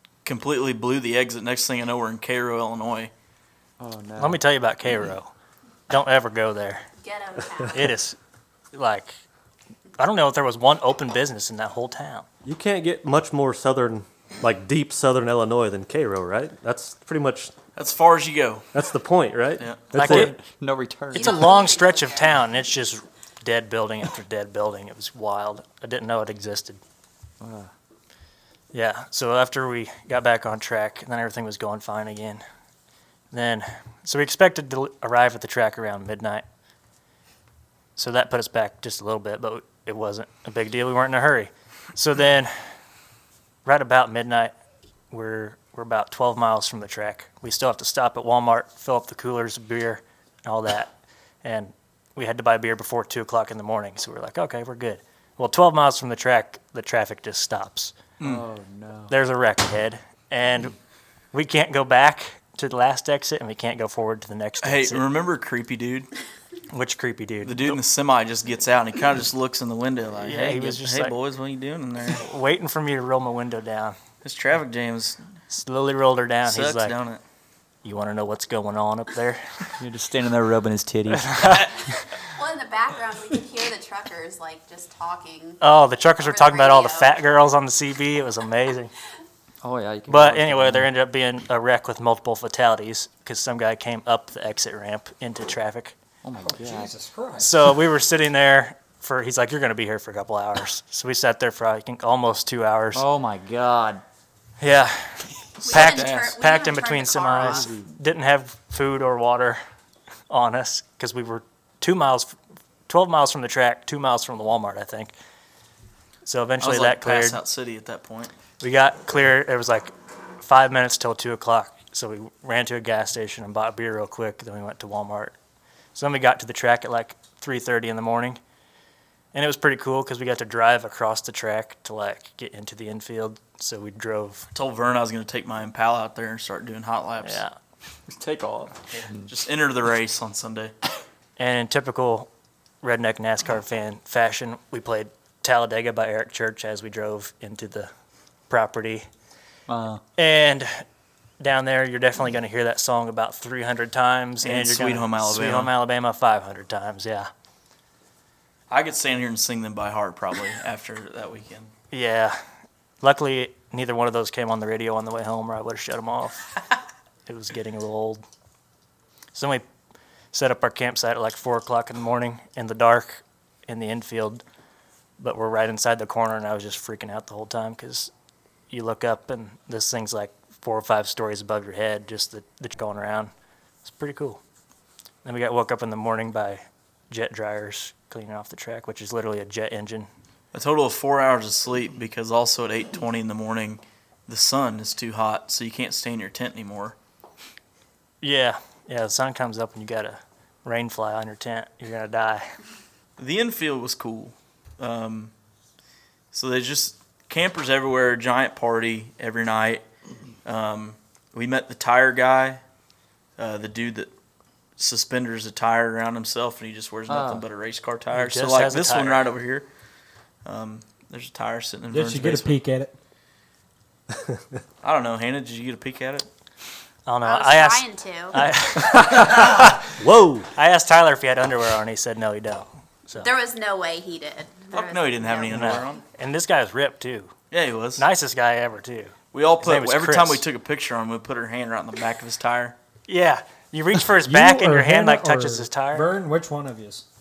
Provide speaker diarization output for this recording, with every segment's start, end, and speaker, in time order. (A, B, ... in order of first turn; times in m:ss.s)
0:00.2-0:03.1 A
0:03.8-0:04.4 B
0:04.2-0:05.3 C
0:05.9-0:06.8 C
0:07.0-0:08.0 D
0:07.7-0:08.2 C
0:08.7-0:09.1 C
0:10.0-0:12.2 C
0:12.4-0:17.5 E
0:17.8-0:18.7 A
0:18.7-0:20.3 E
0:19.6-0:19.9 A
0:19.9-0:20.4 C
0:20.0-0:21.5 B
0:21.1-0:22.4 D
0:21.1-0:26.8 C
0:27.4-0:27.7 B
0:28.7-0:32.4 C
0:33.3-0:36.4 C
0:38.0-0:42.7 C
0:43.6-0:44.5 C
0:45.1-0:50.9 C
0:51.4-0:58.0 C
0:58.2-0:59.1 B
0:59.1-1:00.7 C
1:01.3-1:05.0 C
1:04.6-1:06.1 A
1:06.7-1:07.8 C
1:07.4-1:12.2 A
1:10.2-1:11.2 C
1:12.1-1:14.0 C
1:14.2-1:15.2 A
1:15.5-1:17.0 C
1:16.4-1:17.2 A
1:17.8-1:19.4 C
1:19.8-1:21.7 B
1:21.1-1:21.7 C
1:22.2-1:25.6 D
1:25.6-1:28.9 C
1:26.2-1:27.1 D
1:29.6-1:30.9 B
1:30.1-1:36.0 C
1:36.2-1:36.9 B
1:36.4-1:37.8 F
1:37.4-1:43.0 C
1:42.9-1:44.0 B
1:44.6-1:49.6 C
1:45.6-1:46.3 A
1:45.6-1:47.7 D
1:47.4-1:47.9 B
1:50.3-1:52.4 C
1:52.9-1:55.1 C
1:56.2-1:57.4 C
1:56.6-1:58.3 A
1:58.6-2:05.3 C
2:05.9-2:08.4 C
2:09.3-2:14.5 C
2:14.5-2:17.4 A
2:17.2-2:17.5 C
2:18.1-2:20.7 A
2:21.4-2:22.3 C
2:22.8-2:27.9 C
2:28.5-2:29.1 C
2:29.7-2:30.0 B
2:30.2-2:30.8 C
2:31.4-2:37.3 C
2:34.4-2:35.7 A
2:38.7-2:41.7 A
2:41.9-2:42.4 C
2:43.0-2:46.5 C
2:47.2-2:48.2 C
2:49.3-2:49.6 C
2:50.3-2:54.4 C
2:55.2-2:58.1 C
2:58.7-3:03.3 C
3:03.8-3:04.4 C
3:05.2-3:10.1 C
3:10.5-3:16.9 A
3:18.2-3:22.5 C
3:23.2-3:25.3 A
3:26.3-3:29.8 A
3:30.4-3:32.6 A
3:33.4-3:34.1 A
3:34.8-3:39.7 A
3:37.1-3:37.4 B
3:38.1-3:39.2 C
3:40.4-3:42.6 A
3:41.9-3:42.9 F
3:44.1-3:44.4 E
3:44.8-3:46.3 A
3:47.1-3:49.8 C
3:47.2-3:48.4 D
3:49.0-3:49.4 E
3:50.0-3:50.5 E
3:50.6-3:53.3 C
3:53.2-3:55.8 D
3:54.7-3:56.0 A
3:55.5-3:57.3 C
3:57.5-3:58.0 A
3:58.0-4:00.4 C
3:59.3-4:02.8 A
4:03.1-4:06.1 C
4:04.2-4:07.0 F